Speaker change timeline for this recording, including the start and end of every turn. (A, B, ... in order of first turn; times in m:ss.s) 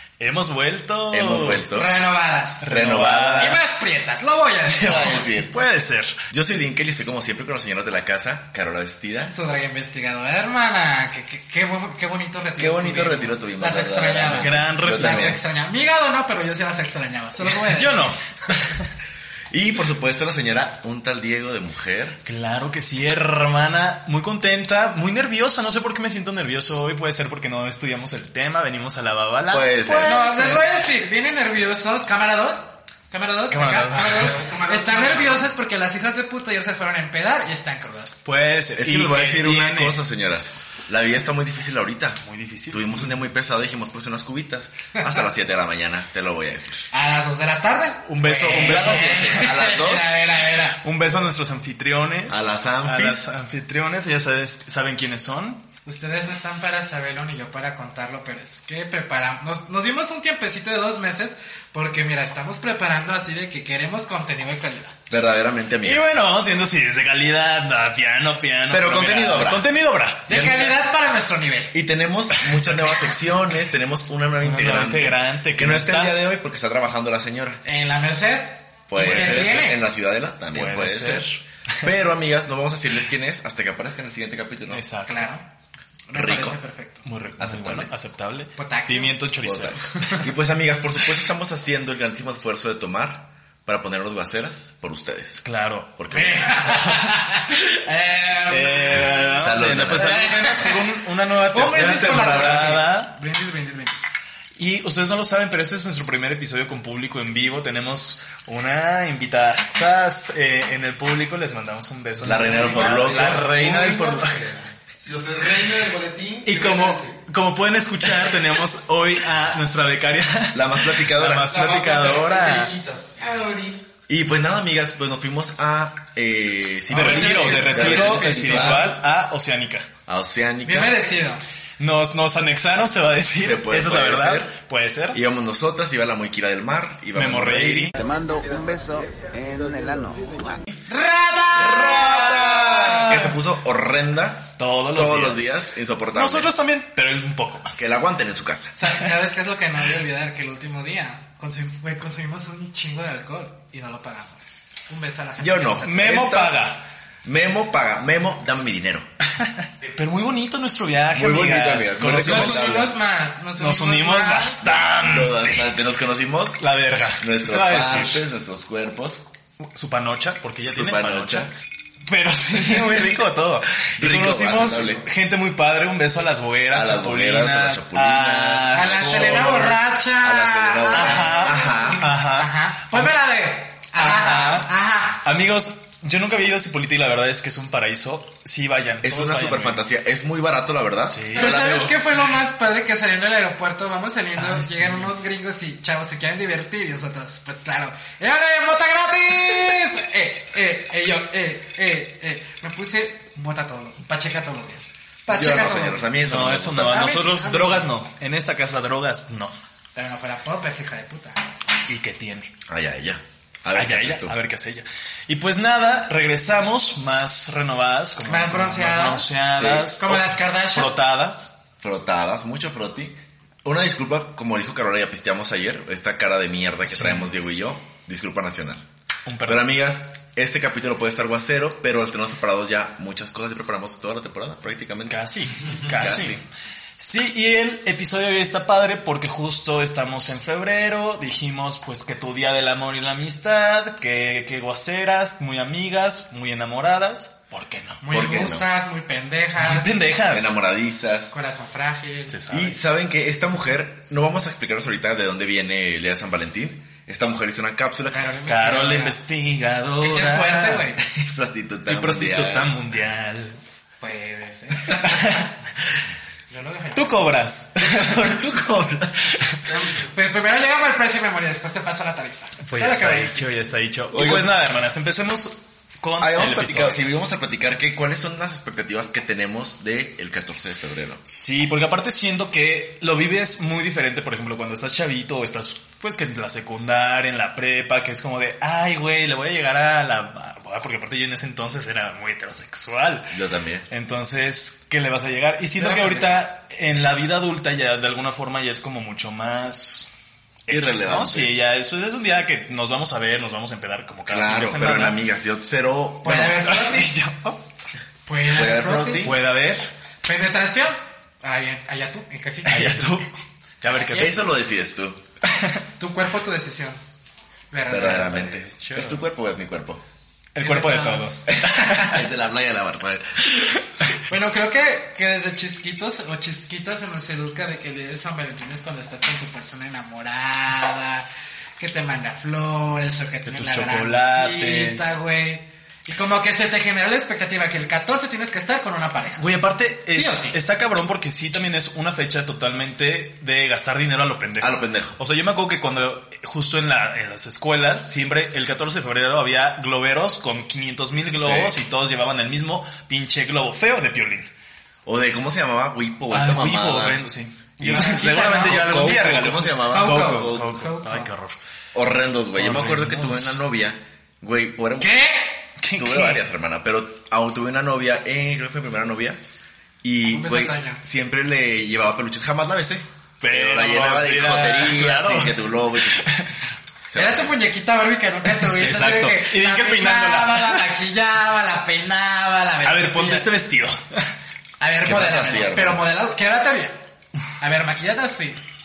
0:00.2-0:01.7 A
0:01.1-0:01.9 B
0:01.7-0:02.7 C
0:02.6-0:03.8 A
0:02.7-0:03.6 B
0:03.4-0:05.2 C
0:04.7-0:05.6 B
0:05.5-0:06.2 A
0:06.3-0:09.4 B
0:09.3-0:18.0 C
0:12.6-0:15.4 B
0:14.3-0:15.4 A
0:17.6-0:18.9 A
0:19.5-0:22.2 B
0:22.3-0:30.6 A
0:29.5-0:30.2 B
0:30.0-0:38.2 C
0:33.5-0:34.5 A
0:34.2-0:35.4 D
0:38.2-0:40.0 A
0:38.8-0:46.9 B
0:42.2-0:43.1 A
0:46.9-0:50.8 C
0:48.1-0:49.5 A
0:48.6-0:50.2 B
0:50.8-0:55.6 A
0:52.3-0:53.3 B
0:55.9-1:05.0 C
1:05.1-1:06.1 B
1:05.8-1:10.5 A
1:08.7-1:09.7 B
1:10.3-1:11.7 C
1:10.3-1:10.8 B
1:11.7-1:17.6 B
1:14.4-1:16.2 A
1:17.6-1:19.8 C
1:18.9-1:21.3 B
1:19.0-1:19.6 A
1:20.5-1:21.9 A
1:21.8-1:24.8 B
1:24.7-1:25.3 A
1:25.1-1:25.4 C
1:26.1-1:27.0 C
1:26.2-1:26.6 B
1:27.0-1:30.1 A
1:27.4-1:27.9 B
1:28.6-1:29.2 C
1:29.4-1:35.4 B
1:35.4-1:36.0 A
1:36.0-1:36.8 B
1:36.1-1:39.3 C
1:36.6-1:37.1 A
1:38.5-1:43.1 A
1:39.1-1:40.3 B
1:40.0-1:40.8 C
1:41.5-1:44.0 C
1:41.8-1:42.5 B
1:44.6-1:54.4 A
1:52.2-1:53.5 B
1:52.3-1:57.2 D
1:56.4-2:02.7 A
2:00.5-2:01.6 B
2:01.4-2:03.8 D
2:04.1-2:09.0 B
2:06.9-2:08.9 C
2:06.9-2:09.9 A
2:10.1-2:11.1 B
2:10.6-2:11.4 C
2:11.8-2:15.2 A
2:13.4-2:14.6 B
2:15.1-2:17.9 B
2:17.1-2:18.0 A
2:18.0-2:20.6 E
2:20.9-2:22.9 C
2:21.6-2:26.5 B
2:22.0-2:23.4 A
2:24.6-2:25.6 A
2:26.1-2:27.9 A
2:27.8-2:28.8 B
2:28.8-2:36.0 C
2:35.4-2:36.6 B
2:35.8-2:36.8 A
2:37.2-2:39.1 B
2:39.4-2:42.9 A
2:41.1-2:42.9 B
2:42.3-2:44.6 C
2:43.6-2:45.7 A
2:44.7-2:46.6 B
2:46.6-2:48.2 A
2:47.2-2:49.2 B
2:49.7-2:51.5 A
2:50.7-2:51.5 B
2:52.1-2:59.7 A
2:54.0-2:55.0 B
2:56.7-3:02.1 B
2:58.7-3:05.2 C
3:00.9-3:03.1 A
3:04.0-3:04.7 A
3:05.2-3:09.8 A
3:09.0-3:12.0 B
3:11.1-3:11.6 A
3:11.3-3:26.1 C
3:14.4-3:15.1 A
3:25.3-3:27.1 B
3:26.3-3:29.6 A
3:26.9-3:27.9 C
3:30.0-3:31.4 C
3:31.9-3:32.5 A
3:32.7-3:34.4 B
3:33.7-3:41.5 A
3:38.2-3:39.3 C
3:39.5-3:39.9 B
3:40.0-3:40.9 C
3:41.8-3:48.8 B
3:46.9-3:47.3 A
3:49.3-3:49.7 A
3:49.5-3:55.2 B
3:55.1-3:56.4 A
3:55.9-3:56.4 B
3:57.0-4:08.0 A
4:08.0-4:09.9 C
4:08.1-4:08.7 B
4:09.6-4:10.5 A
4:10.3-4:11.3 B
4:11.3-4:12.4 C
4:12.3-4:12.8 A
4:12.5-4:18.2 B
4:18.1-4:19.2 C
4:18.5-4:20.9 A
4:20.0-4:21.0 C
4:21.0-4:22.8 B
4:21.9-4:23.6 A
4:24.0-4:25.2 C
4:24.9-4:25.5 A
4:26.5-4:27.3 C
4:26.9-4:28.6 A
4:27.8-4:29.3 B
4:29.2-4:29.6 A
4:29.7-4:33.5 C
4:32.6-4:37.0 A
4:34.1-4:34.5 B
4:36.2-4:41.2 B
4:41.3-4:53.4 A
4:53.3-4:53.9 B
4:53.9-5:00.1 A
4:55.8-4:56.4 C
5:00.7-5:05.2 A
5:00.7-5:01.5 B
5:04.3-5:06.7 B
5:06.2-5:07.2 C
5:06.7-5:07.6 A
5:08.3-5:09.3 C
5:08.5-5:09.4 B
5:09.2-5:09.9 A
5:10.2-5:13.2 C
5:12.6-5:13.3 A
5:13.8-5:14.5 A
5:14.1-5:15.2 B
5:15.5-5:15.8 A
5:16.0-5:17.0 C
5:17.7-5:18.7 C
5:17.9-5:20.0 B
5:18.8-5:19.2 A
5:20.6-5:22.3 A
5:20.6-5:21.9 C
5:21.6-5:23.5 B
5:23.5-5:24.1 A
5:24.3-5:31.3 C
5:31.8-5:39.5 C
5:33.5-5:35.2 A
5:39.4-5:54.5 A
5:40.1-5:40.6 C
5:44.6-5:45.2 B
5:51.3-5:51.8 B
5:55.1-5:57.2 B
5:56.3-6:01.6 A
5:57.8-6:00.8 B
5:57.8-5:58.9 C
5:59.9-6:01.3 C
6:01.9-6:05.2 B
6:02.5-6:03.6 A
6:05.0-6:05.6 C
6:05.8-6:06.4 A
6:06.0-6:09.4 B
6:10.0-6:16.3 B
6:10.3-6:11.0 C
6:13.4-6:16.6 A
6:17.1-6:17.6 B
6:17.2-6:23.5 C
6:18.5-6:20.8 A
6:22.8-6:24.3 A
6:24.8-6:27.0 C
6:25.0-6:26.0 B
6:27.6-6:28.6 C